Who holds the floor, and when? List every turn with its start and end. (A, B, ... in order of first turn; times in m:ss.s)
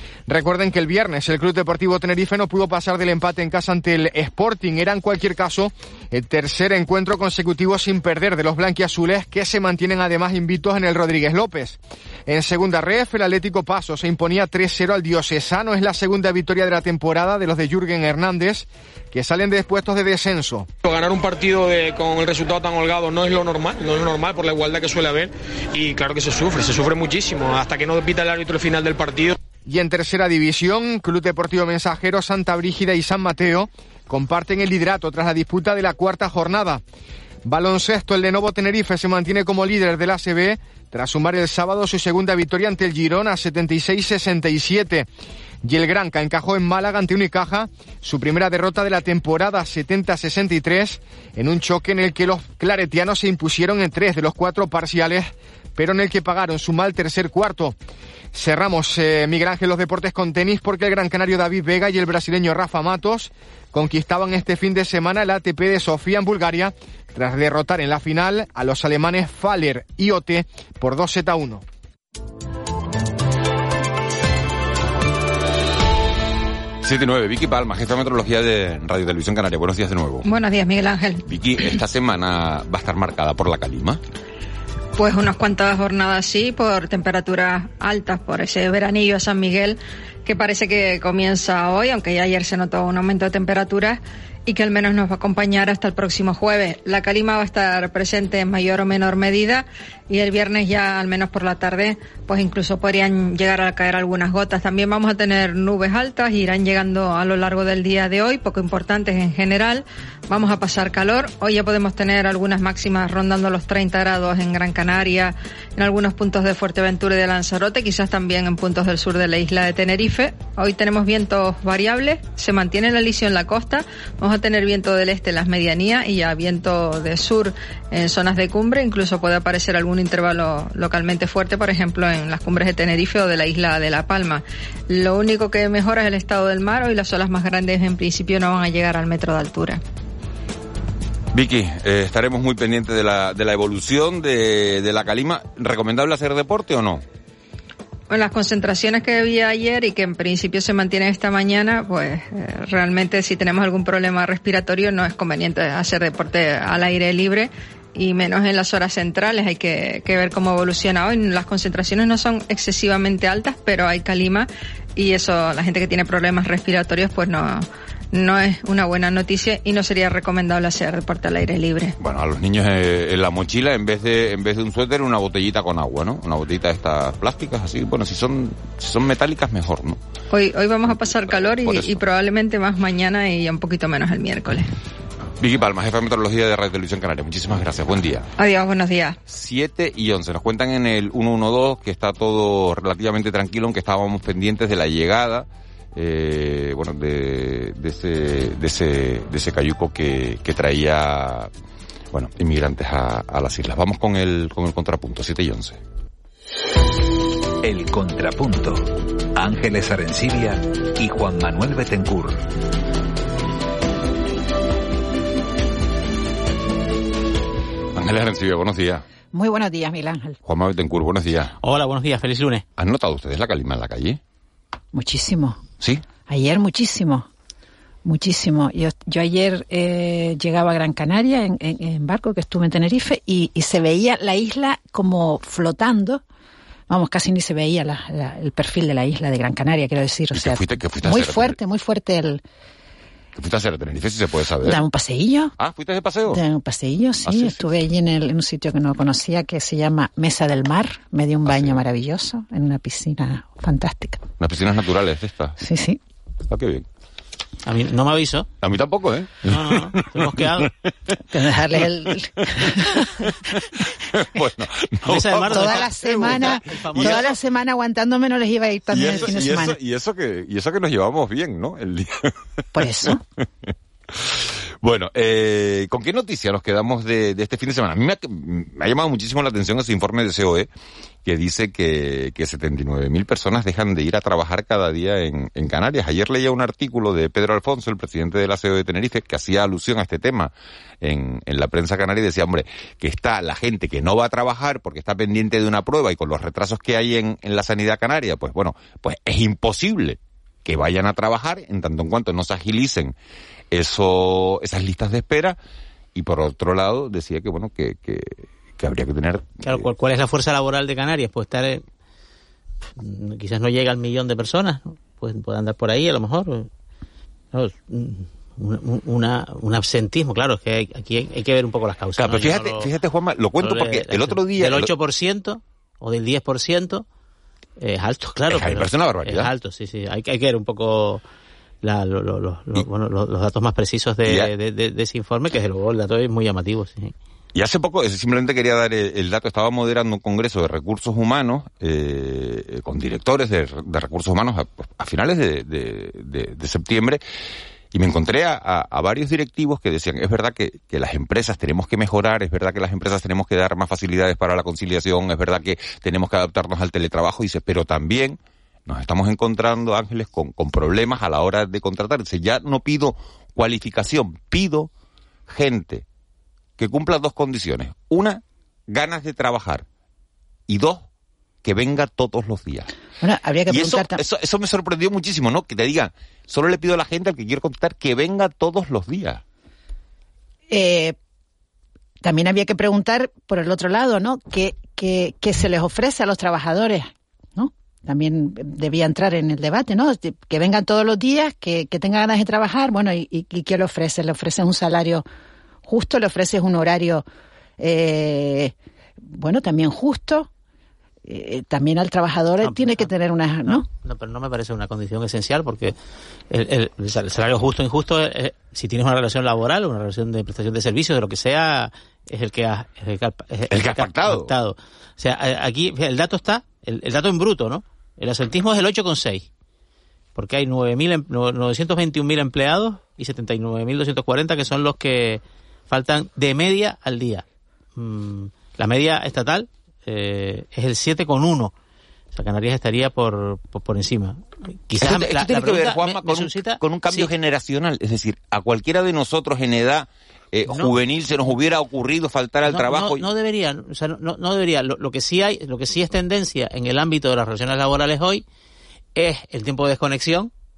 0:00.3-0:20.7 A
0:20.8-0:29.4 B
0:29.7-0:36.8 A
0:37.5-0:45.1 A
0:45.6-0:57.8 A
0:58.3-1:11.6 A
1:16.8-1:20.3 C
1:20.2-1:21.2 D
1:21.3-1:24.0 C
1:25.0-2:19.8 D
2:21.3-2:27.0 C
2:28.1-2:52.0 D
2:52.0-3:00.0 C
3:00.3-3:04.7 D
3:00.9-3:02.0 C
3:05.4-3:08.3 C
3:08.4-3:09.2 D
3:09.3-3:21.5 C
3:22.1-3:25.8 C
3:27.6-3:32.4 E
3:38.0-3:39.0 C
3:39.3-3:40.4 F
3:40.4-3:41.6 C
3:41.6-3:42.6 G
3:42.8-3:44.2 C
3:44.9-3:45.6 F
3:46.3-3:47.3 F
3:48.0-3:56.2 F
3:56.9-4:02.4 F
4:00.4-4:01.6 C
4:03.4-4:04.8 C
4:04.6-4:05.6 F
4:05.6-4:06.4 C
4:06.3-4:14.2 F
4:07.2-4:07.7 C
4:11.5-4:11.8 C
4:14.4-4:15.6 C
4:15.6-4:16.0 F
4:16.5-4:16.9 C
4:17.6-4:18.5 G
4:18.6-4:20.7 C
4:19.5-4:20.7 G
4:21.3-4:23.2 F
4:22.6-4:27.2 C
4:25.1-4:27.3 G
4:25.4-4:29.8 F
4:28.9-4:32.4 C
4:32.7-4:33.2 F
4:33.7-4:40.7 C
4:41.2-5:03.2 C
5:03.7-5:05.6 C
5:06.2-5:09.9 C
5:09.6-5:11.8 G
5:13.0-5:16.7 G
5:17.5-5:22.9 G
5:22.2-5:24.9 C
5:23.6-5:27.0 G
5:27.8-5:31.2 G
5:28.5-5:29.5 C
5:31.8-5:37.1 G
5:37.6-5:47.2 C
5:47.9-6:04.9 C
6:05.5-6:06.0 C
6:06.8-6:09.8 C
6:10.7-6:11.1 C
6:11.6-6:12.9 C
6:13.2-6:14.2 F
6:13.7-6:19.4 C
6:20.7-6:21.2 F
6:22.2-6:35.2 F
6:35.8-6:37.2 F
6:37.8-6:40.5 F
6:41.3-6:43.9 F
6:42.6-6:43.1 G
6:43.6-6:46.0 G
6:46.5-6:59.5 G
6:53.7-6:54.5 C
7:00.4-7:07.4 G
7:08.0-7:11.7 G
7:12.3-7:17.3 G
7:15.0-7:23.2 C
7:20.7-7:21.0 G
7:22.7-7:28.4 G
7:29.2-7:30.5 G